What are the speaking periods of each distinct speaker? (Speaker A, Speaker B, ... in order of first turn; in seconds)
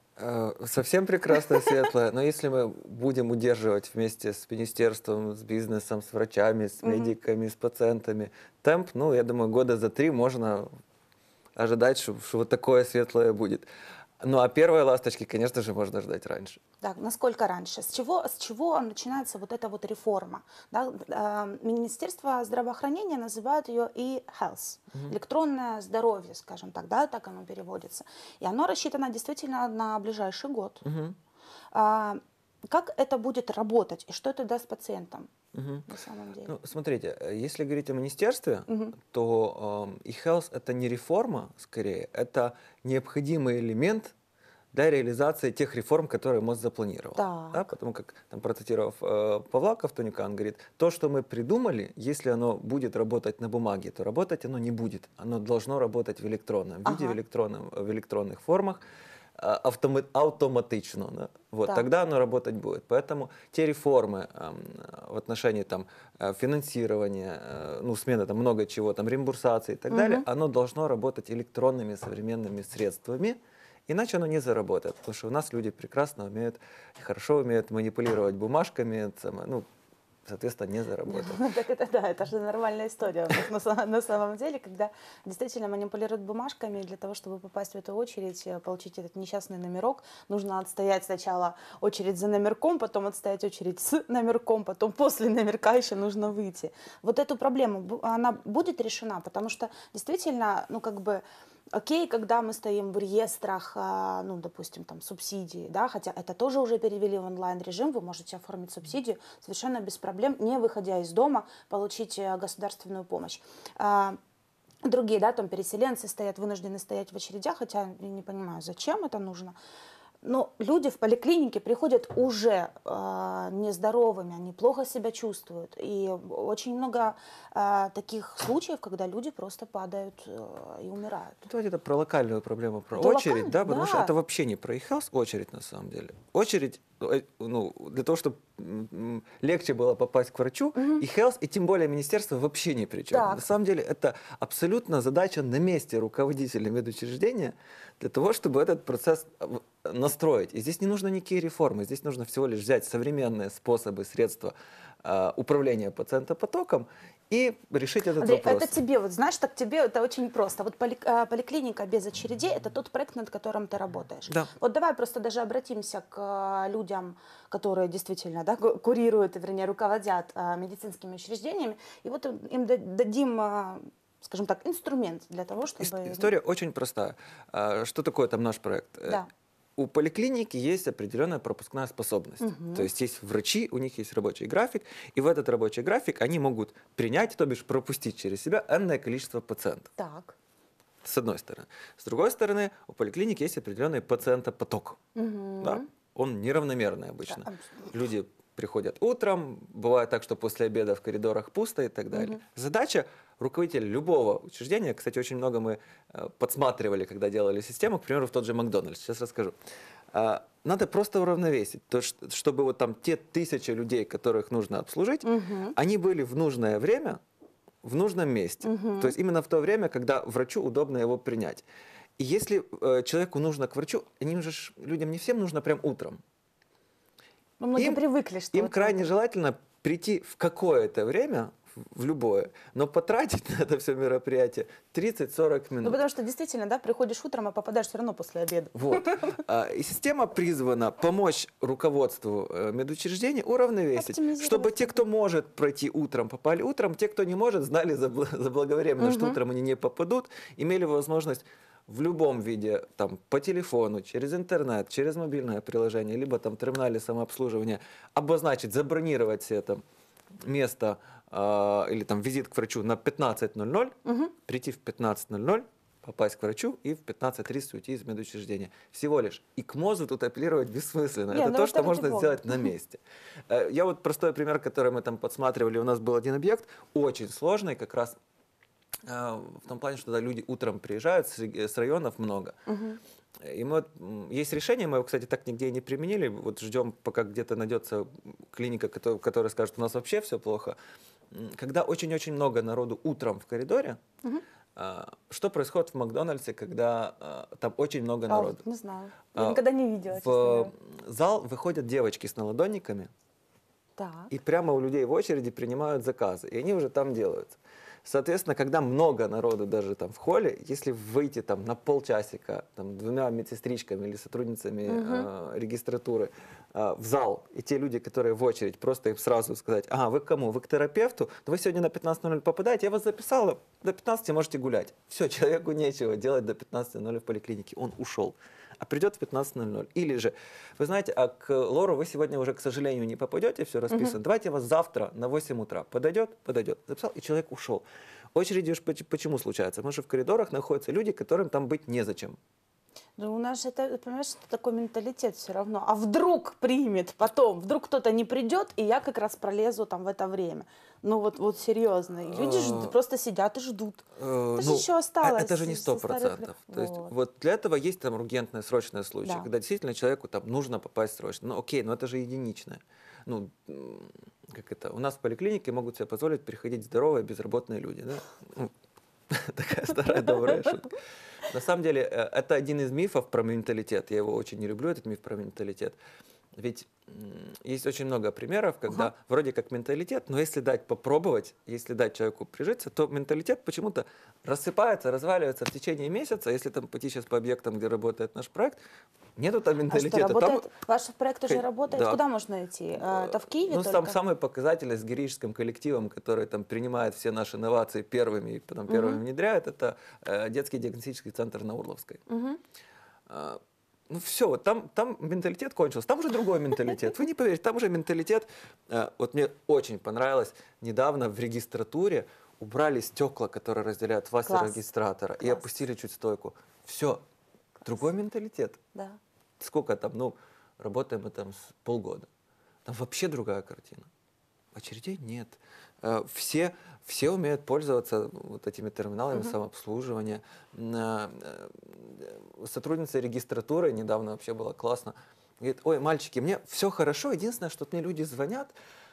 Speaker A: 0.2-10.7, 11.6-13.6, 14.2-16.6, 30.8-31.2, 35.5-35.8, 36.5-44.1, 44.7-58.8, 59.4-79.6, 80.2-81.4, 131.5-158.7, 175.8-179.2, 179.8-189.9, 191.0-195.0, 195.6-209.6, 210.1-217.2, 217.8-221.6, 222.2-226.2, 227.8-228.0, 228.5-236.0, 238.7-259.8, 260.4-278.1, 279.0-282.6, 283.4-290.8, 291.3-294.0, 294.8-298.6, 299.3-303.1, 304.3-342.4, 352.2-352.9, 354.1-368.7, 369.3-370.9, 371.5-376.0, 376.5-388.8, 389.4-390.7, 391.5-392.2, 393.1-402.2, 403.3-417.2, 417.8-418.8, 419.6-422.3, 422.8-424.1, 424.7-438.7
Speaker B: 6.8-7.1, 16.8-30.8, 31.7-35.3, 35.9-36.5, 38.7-39.0, 47.1-47.6, 56.8-57.2, 69.9-70.2, 81.1-114.2, 114.8-119.5, 120.2-131.5, 133.0-134.1, 140.8-141.0, 143.1-143.4, 158.2-176.3, 182.4-182.9, 190.0-190.3, 195.1-195.9, 197.3-197.9, 202.1-202.4, 215.2-215.8, 218.6-219.1, 227.6-229.1, 235.8-239.4, 243.9-245.0, 249.0-249.4, 264.0-264.3, 271.3-272.7, 282.7-283.0, 298.3-300.7, 304.0-304.3, 314.9-315.3, 343.2-357.1, 389.9-394.2, 398.9-399.2, 402.3-402.6, 414.4-414.8, 415.4-415.6